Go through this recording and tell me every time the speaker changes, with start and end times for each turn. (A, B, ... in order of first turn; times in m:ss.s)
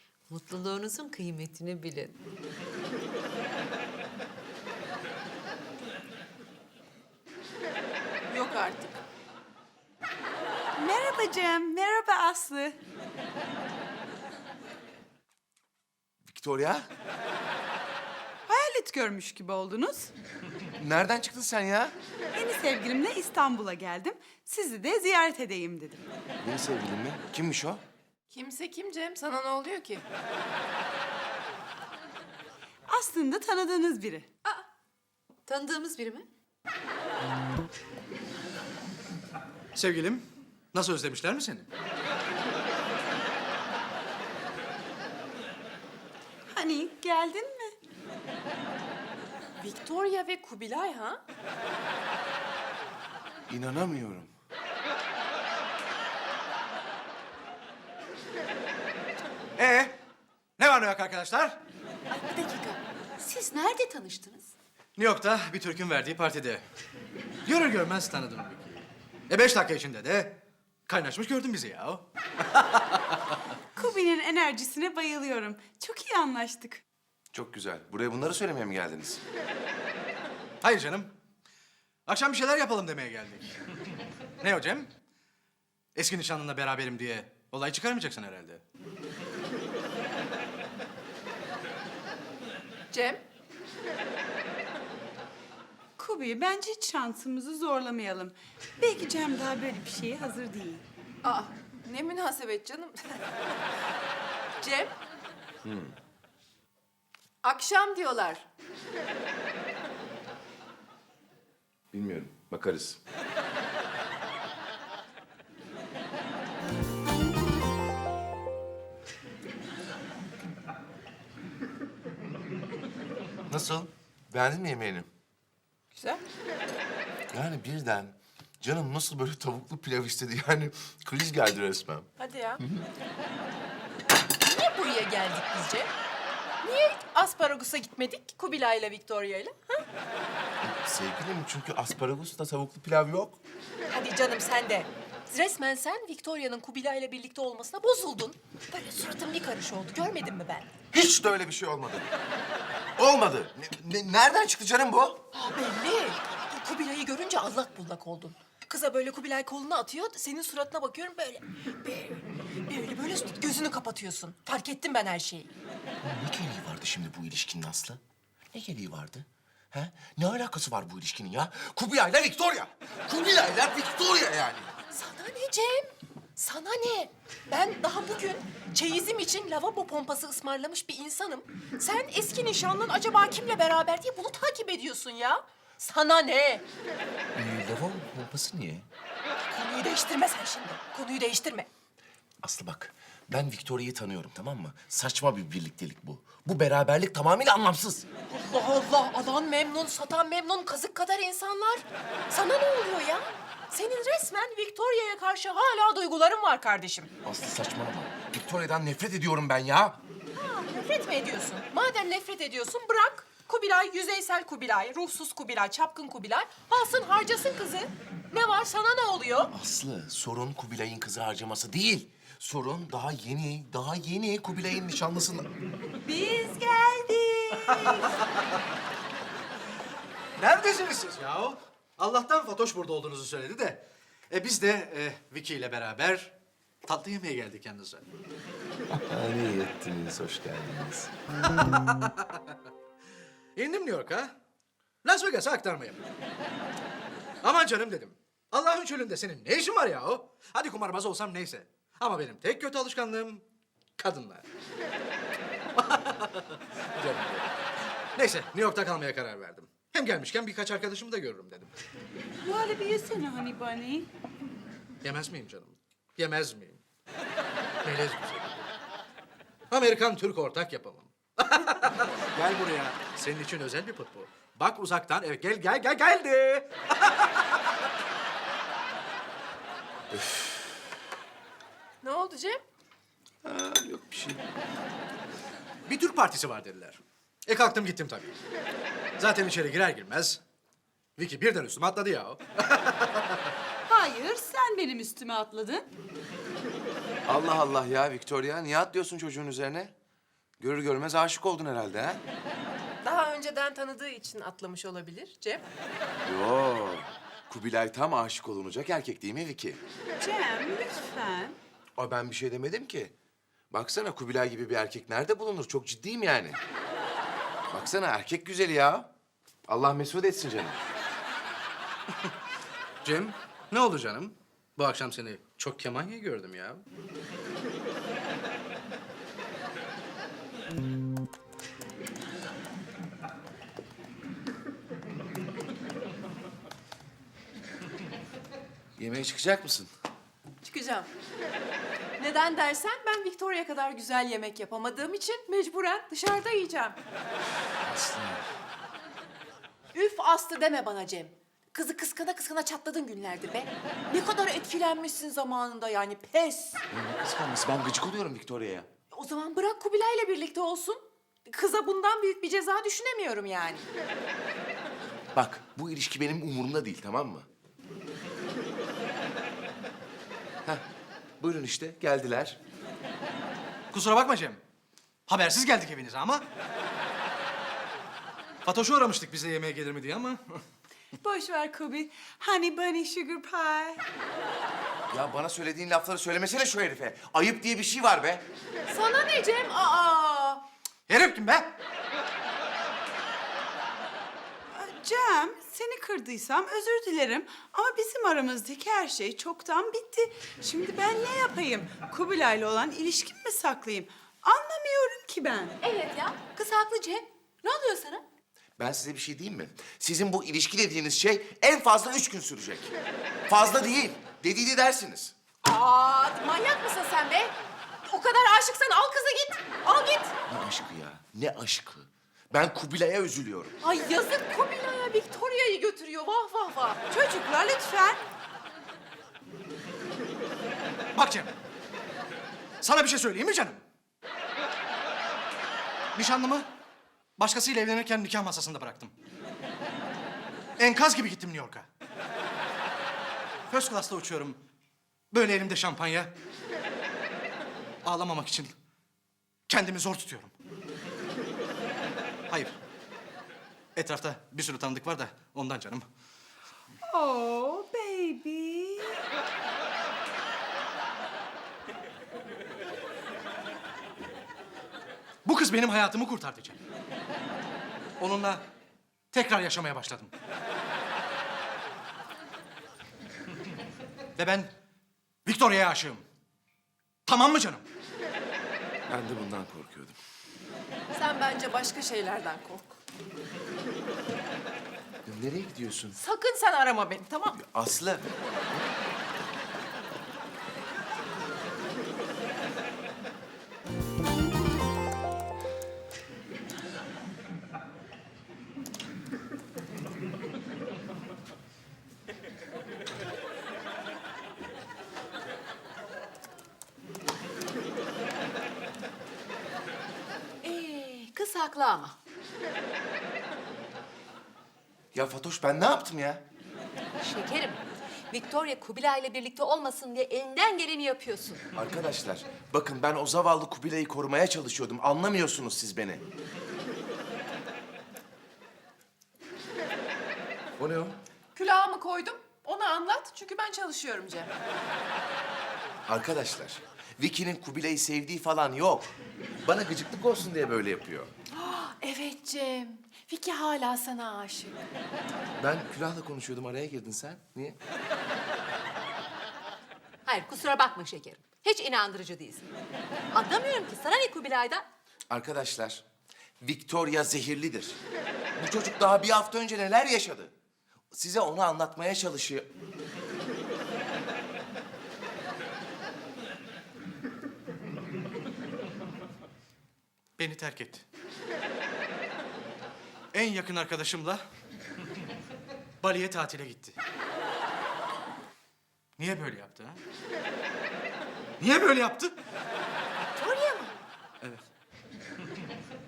0:00.3-0:02.1 A
0:08.3-0:09.0 B
0:10.8-0:12.8 C
0:16.2-0:16.9 D
0:18.5-0:20.1 C
0:20.8-0:21.9 D
0:22.3-0:26.0 C
0:26.4-0:27.8 D
0:28.3-0:30.0 B
0:32.9-0:34.3 C
0:35.5-0:36.2 A
0:39.7-0:41.7 E
0:46.5-0:47.7 C
0:49.6-0:51.2 B
0:53.5-0:54.3 D
0:59.6-1:00.0 E
1:00.6-1:01.6 E
1:02.3-1:02.7 B
1:03.2-1:04.4 A
1:05.0-1:06.6 E
1:07.4-1:13.2 E
1:13.8-1:16.8 C
1:17.3-1:19.2 D
1:20.6-1:21.2 E
1:22.1-1:23.6 E
1:24.4-1:24.9 E
1:25.9-1:28.6 E
1:32.9-1:33.2 B
1:36.0-1:40.8 C
1:41.2-1:43.2 B
1:44.6-1:45.0 B
1:45.6-1:45.9 D
1:47.4-1:48.4 B
1:51.9-1:53.0 D
2:03.5-2:05.1 D
2:05.9-2:06.2 B
2:07.3-2:12.9 D
2:12.2-2:12.6 B
2:14.3-2:15.9 B
2:16.6-2:19.8 B
2:20.6-2:23.4 D
2:23.9-2:30.7 B
2:30.9-2:32.1 D
2:33.0-2:35.2 D
2:35.3-2:45.5 B
2:46.0-2:48.0 D
2:48.5-2:54.7 D
2:54.9-3:06.6 B
3:07.3-3:08.9 D
3:09.4-3:11.7 B
3:12.4-3:18.0 D
3:18.3-3:27.1 B
3:27.2-3:30.0 D
3:30.3-3:39.5 B
3:39.5-3:45.5 D
3:46.0-3:48.1 C
3:50.4-3:58.1 E
3:58.9-4:01.1 D
4:01.5-4:02.4 E
4:03.6-4:04.3 E
4:05.0-4:06.0 E
4:07.4-4:13.4 E
4:14.0-4:14.4 E
4:15.7-4:17.6 E
4:18.2-4:21.7 E
4:22.4-4:24.1 C
4:25.0-4:26.8 E
4:27.8-4:28.7 E
4:29.7-4:37.6 E
4:40.1-4:40.6 D
4:42.0-4:42.6 B
4:43.4-4:44.4 D
4:45.8-4:48.4 E
4:49.2-4:50.4 E
4:51.2-4:53.4 E
4:53.9-4:55.8 C
4:57.2-4:59.9 D
5:00.6-5:02.2 D
5:03.0-5:05.6 B
5:06.2-5:09.8 D
5:10.2-5:11.6 C
5:12.0-5:13.1 D
5:13.7-5:16.6 D
5:17.7-5:19.1 D
5:19.7-5:20.8 D
5:23.0-5:26.8 E
5:39.0-5:39.9 D
5:40.6-5:41.1 B
5:42.2-5:47.0 B
5:47.8-5:48.4 D
5:49.9-5:56.8 B
5:56.9-5:58.9 D
5:59.1-6:03.9 B
6:05.3-6:07.5 D
6:11.4-6:12.6 D
6:13.9-6:14.6 E
6:15.3-6:16.5 E
6:18.6-6:20.6 E
6:21.2-6:24.0 C
6:25.1-6:28.4 D
6:28.9-6:30.6 B
6:31.1-6:31.8 E
6:34.7-6:45.8 C
6:45.8-6:46.5 B
6:46.6-6:48.0 A
6:48.8-6:52.9 D
6:53.5-6:55.3 D
6:55.6-7:00.3 B
7:00.5-7:03.7 D
7:03.8-7:08.2 B
7:11.1-7:11.5 E
7:12.8-7:13.8 E
7:16.1-7:16.7 E
7:17.4-7:19.1 E
7:20.8-7:21.9 E
7:23.7-7:24.6 E
7:25.3-7:26.4 E
7:28.0-7:28.8 E
7:29.7-7:30.5 E
7:32.5-7:32.8 E
7:34.0-7:36.0 E
7:37.0-7:39.2 C
7:45.4-7:46.8 E
7:48.2-7:48.7 E
7:49.3-7:50.3 E
7:54.4-7:54.7 E
7:55.4-7:56.2 E
7:57.2-7:57.8 E
7:59.1-8:00.2 D
8:01.1-8:03.0 B
8:05.2-8:06.2 D
8:06.2-8:07.6 B
8:07.5-8:08.9 D
8:30.6-8:32.1 A
8:35.1-8:36.4 D
8:37.2-8:41.6 A
8:41.8-8:46.2 D
8:50.8-8:51.2 D
8:51.5-8:54.5 B
8:56.1-9:01.3 D
9:01.5-9:04.9 B
9:05.6-9:07.8 D
9:10.2-9:12.6 A
9:13.3-9:14.8 A
9:15.3-9:16.0 D
9:16.6-9:18.0 D
9:18.6-9:20.5 D
9:21.1-9:22.7 D
9:30.4-9:31.0 E
9:33.3-9:34.4 E
9:36.0-9:37.0 E
9:39.2-9:40.0 E
9:41.6-9:42.3 E